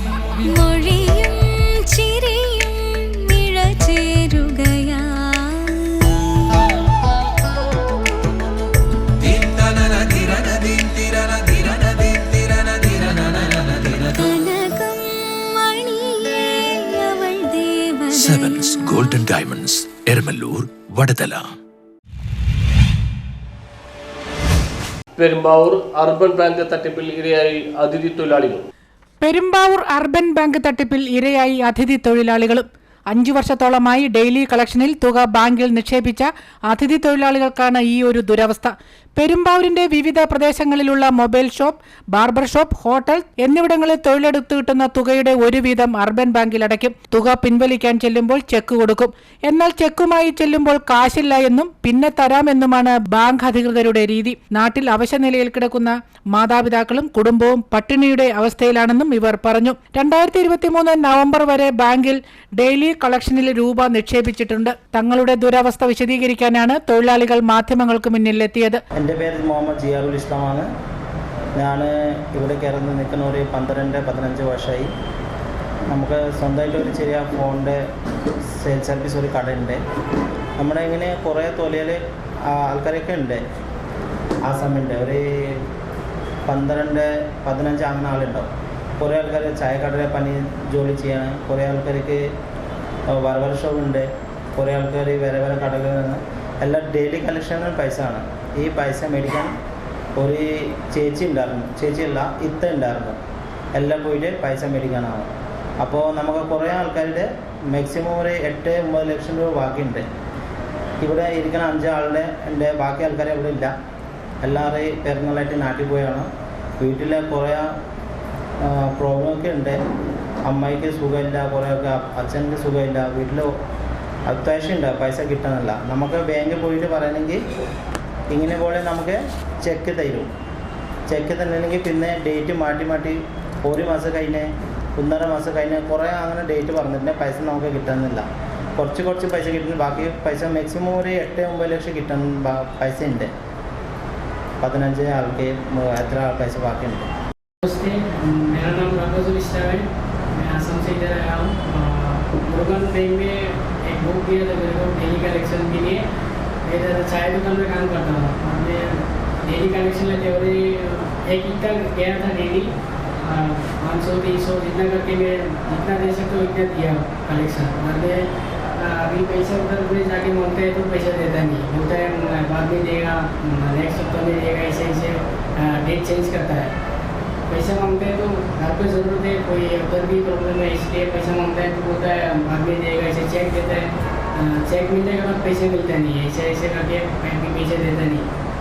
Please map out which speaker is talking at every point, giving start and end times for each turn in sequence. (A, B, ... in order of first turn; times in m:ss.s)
0:00.4-0:06.7 A
0:09.5-0:13.8 B
0:14.0-0:19.1 A
0:18.1-0:21.5 B
0:25.2-0:28.7 C
0:29.2-1:08.8 D
1:09.0-1:10.7 E
1:11.6-1:14.9 E
1:15.9-1:17.8 E
1:18.5-1:19.8 E
1:20.6-1:22.0 E
1:22.5-1:23.4 E
1:24.5-1:25.6 E
1:26.5-1:28.5 E
1:29.0-1:32.2 E
1:33.1-1:34.0 E
1:34.6-1:39.5 E
1:40.2-1:43.2 E
1:43.8-1:45.3 E
1:45.8-1:50.0 E
1:51.0-1:53.7 E
1:54.4-1:56.3 E
1:56.8-1:57.7 E
1:58.6-1:59.8 E
2:00.5-2:03.5 E
2:04.3-2:07.4 E
2:08.3-2:10.3 E
2:11.1-2:18.3 E
2:18.8-2:23.3 E
2:24.6-2:27.1 E
2:27.6-2:36.0 F
2:36.7-2:42.7 F
2:43.2-2:56.7 F
2:57.5-3:08.3 F